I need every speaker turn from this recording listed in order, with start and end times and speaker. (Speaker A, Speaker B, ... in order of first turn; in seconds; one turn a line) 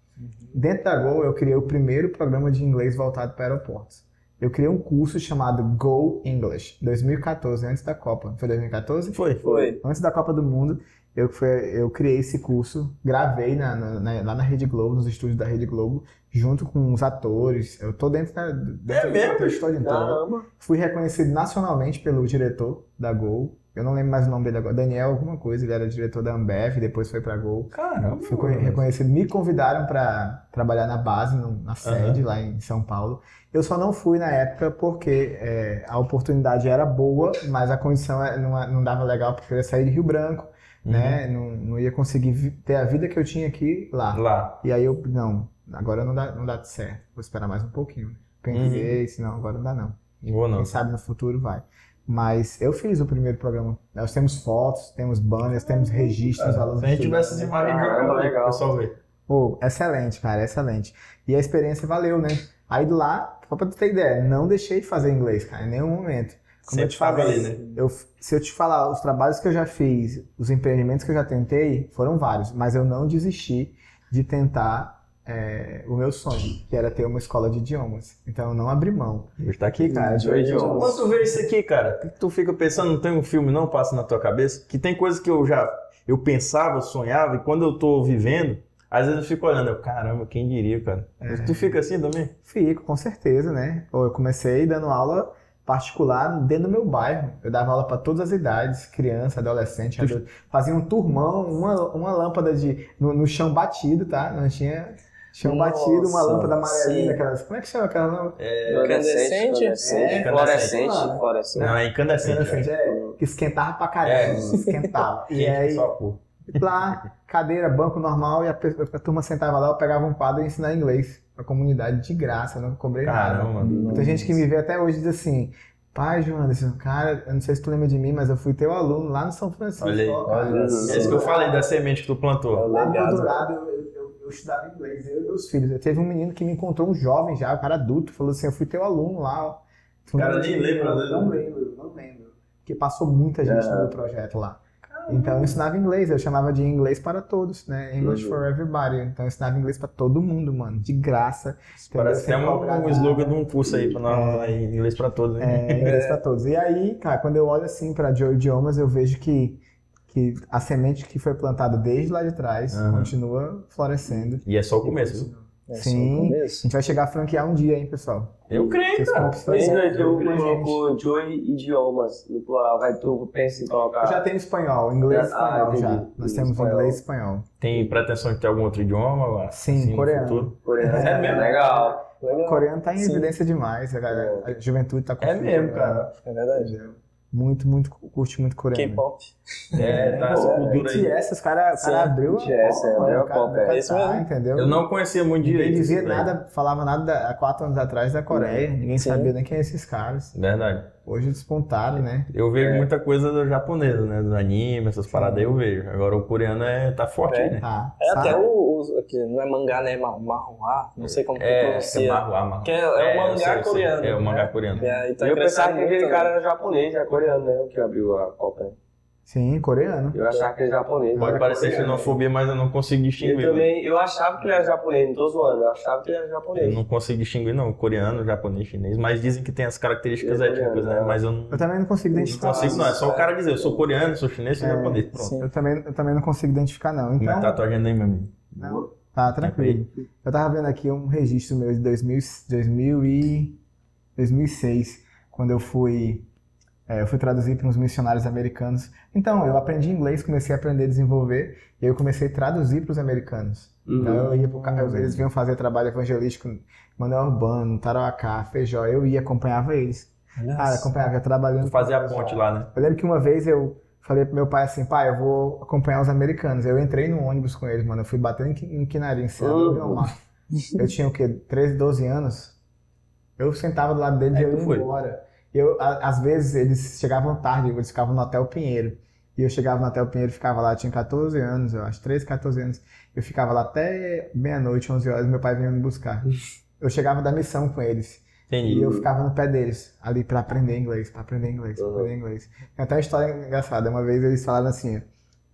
Speaker A: 0.2-0.6
Speaker B: 0.5-50.0
Speaker C: 9.1-9.5
Speaker A: 9.4-9.8
Speaker C: 18.9-19.7
Speaker D: 19.8-20.4
Speaker C: 27.7-28.8
Speaker C: 31.8-32.2
Speaker C: 40.8-41.2
Speaker C: 44.1-44.6
Speaker C: 48.5-49.0
Speaker C: 50.2-50.8
Speaker B: 50.5-57.6
Speaker C: 55.7-59.0
Speaker D: 57.6-58.7
Speaker B: 59.3-81.1
Speaker C: 66.7-67.6
Speaker C: 79.4-92.3
Speaker D: 80.1-81.0
Speaker A: 80.1-80.8
Speaker B: 91.2-91.8
Speaker B: 92.4-108.4
Speaker A: 105.4-107.2
Speaker C: 108.4-109.0
Speaker D: 108.7-111.7
Speaker A: 108.7-110.1
Speaker B: 109.8-115.9
Speaker C: 110.0-110.8
Speaker C: 111.5-112.7
Speaker D: 112.8-113.2
Speaker C: 114.0-114.5
Speaker A: 114.5-114.9
Speaker C: 115.3-116.2
Speaker B: 116.5-131.6
Speaker C: 123.0-123.9
Speaker A: 123.6-124.3
Speaker D: 123.6-124.1
Speaker C: 129.8-132.7
Speaker D: 130.3-131.3
Speaker A: 130.5-131.1
Speaker D: 132.6-133.3
Speaker A: 132.6-133.2
Speaker B: 132.7-153.5
Speaker C: 140.1-141.4
Speaker D: 143.4-143.9
Speaker C: 144.9-145.6
Speaker D: 148.0-148.4
Speaker C: 151.9-155.9
Speaker D: 153.7-153.9
Speaker B: 154.0-154.6
Speaker B: 155.4-170.8
Speaker A: 155.8-156.2
Speaker C: 162.7-163.1
Speaker C: 164.3-165.3
Speaker A: 165.7-166.7
Speaker C: 168.5-170.4
Speaker D: 168.5-168.8
Speaker D: 169.4-174.2
Speaker A: 169.5-169.9
Speaker B: 174.0-177.5
Speaker D: 175.1-177.0
Speaker C: 177.6-181.6
Speaker B: 179.5-189.0
Speaker D: 180.6-182.0
Speaker A: 182.2-183.3
Speaker D: 184.1-184.5
Speaker C: 185.2-186.1
Speaker A: 186.2-186.8
Speaker A: 188.7-190.8
Speaker C: 189.7-191.1
Speaker B: 189.7-194.8
Speaker D: 190.3-190.8
Speaker A: 191.8-194.3
Speaker D: 192.3-193.8
Speaker C: 194.6-196.3
Speaker B: 195.4-200.3
Speaker A: 198.9-199.3
Speaker C: 200.3-200.9
Speaker B: 201.1-202.3
Speaker C: 202.3-207.6
Speaker D: 202.6-202.9
Speaker B: 205.1-205.6
Speaker A: 207.3-216.3
Speaker B: 207.6-208.4
Speaker C: 211.3-214.9
Speaker B: 214.7-215.0
Speaker D: 215.2-218.7
Speaker B: 219.3-220.2
Speaker D: 220.1-222.1
Speaker B: 221.1-221.9
Speaker C: 221.2-223.7
Speaker D: 223.2-226.8
Speaker C: 226.6-231.7
Speaker D: 230.2-231.2
Speaker B: 231.5-233.0
Speaker C: 232.2-235.3
Speaker D: 232.2-233.8
Speaker A: 232.5-232.8
Speaker B: 234.6-237.6
Speaker A: 235.1-235.5
Speaker C: 237.2-239.8
Speaker B: 238.6-243.6
Speaker B: 244.2-246.3
Speaker B: 246.9-270.2
Speaker D: 253.9-254.3
Speaker A: 254.3-254.9
Speaker C: 254.8-255.2
Speaker A: 260.4-260.9
Speaker C: 261.6-262.7
Speaker D: 269.4-270.1
Speaker B: 270.7-272.6
Speaker B: 273.4-286.3
Speaker C: 274.3-274.9
Speaker B: 286.8-295.1
Speaker C: 288.5-288.9
Speaker D: 288.7-289.1
Speaker D: 291.8-292.1